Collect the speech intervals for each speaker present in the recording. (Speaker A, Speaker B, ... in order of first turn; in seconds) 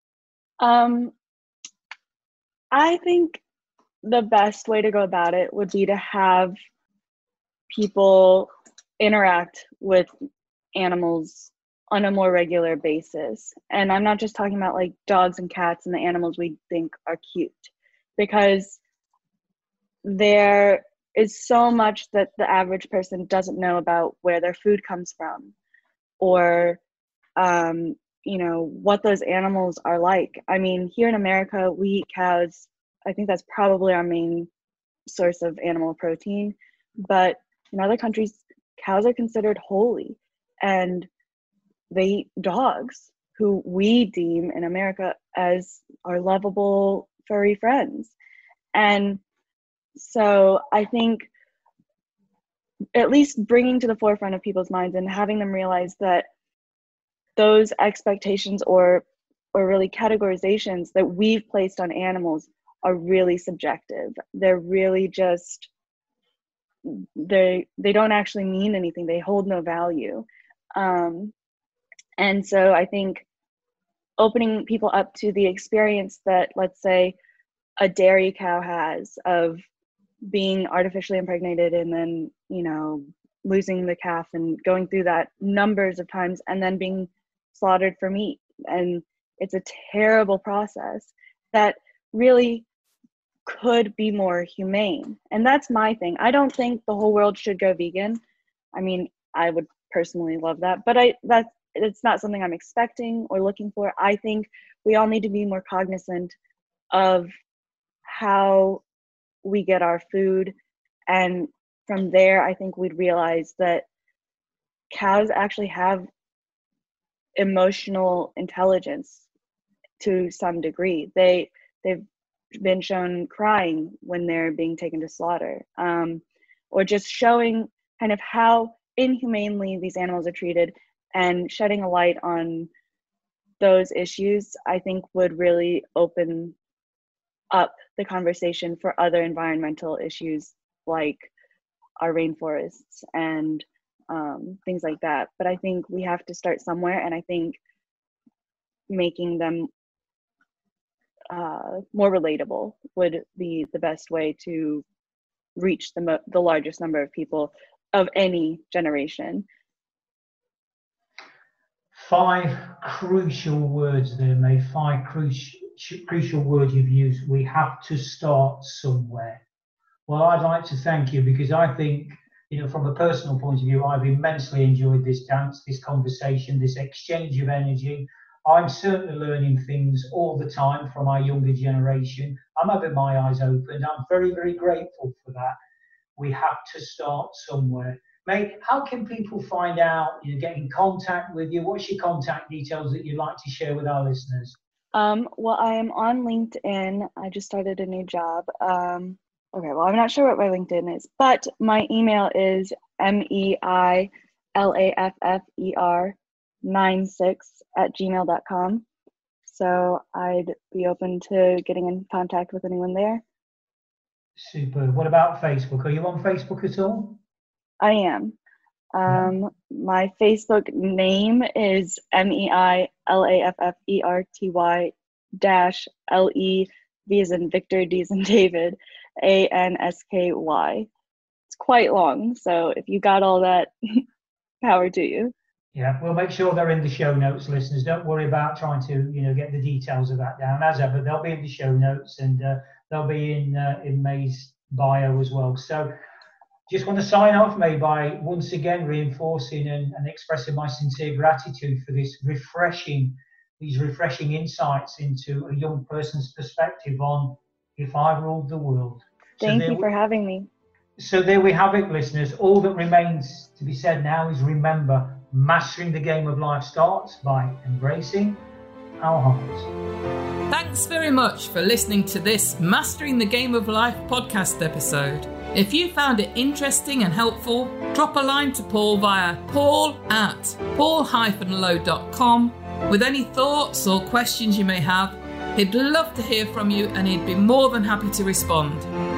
Speaker A: 0.6-1.1, 2.7-3.4, 4.0-6.5, 7.7-10.1, 10.8-18.8, 20.1-25.5, 26.2-26.8, 27.4-34.5, 35.1-41.1, 41.9-48.1, 48.7-49.2, 50.0-51.3, 53.0-56.3, 57.4-65.7, 66.8-71.3, 72.2-73.2, 74.2-77.2, 77.8-79.6, 80.3-92.7, 93.5-98.2, 98.7-106.3, 106.9-107.3, 108.1-108.8, 109.4-110.5, 111.1-113.8, 114.9-116.1, 117.4-119.2, 120.0-122.0, 122.6-132.7, 133.6-136.6, 137.5-141.3, 142.0-147.6, 148.9-149.7, 151.3-154.8, 155.6-159.5, 194.9-208.9, 209.5-213.2, 217.8-218.4, 218.9-230.9, 231.5-234.0, 234.6-235.3, 259.4-260.5
Speaker B: 161.9-169.4, 170.1-185.6, 186.2-194.6, 214.4-217.2, 219.1-219.3, 235.7-245.9, 246.7-259.9, 261.0-268.4, 269.0-269.7
Speaker C: 270.5-288.9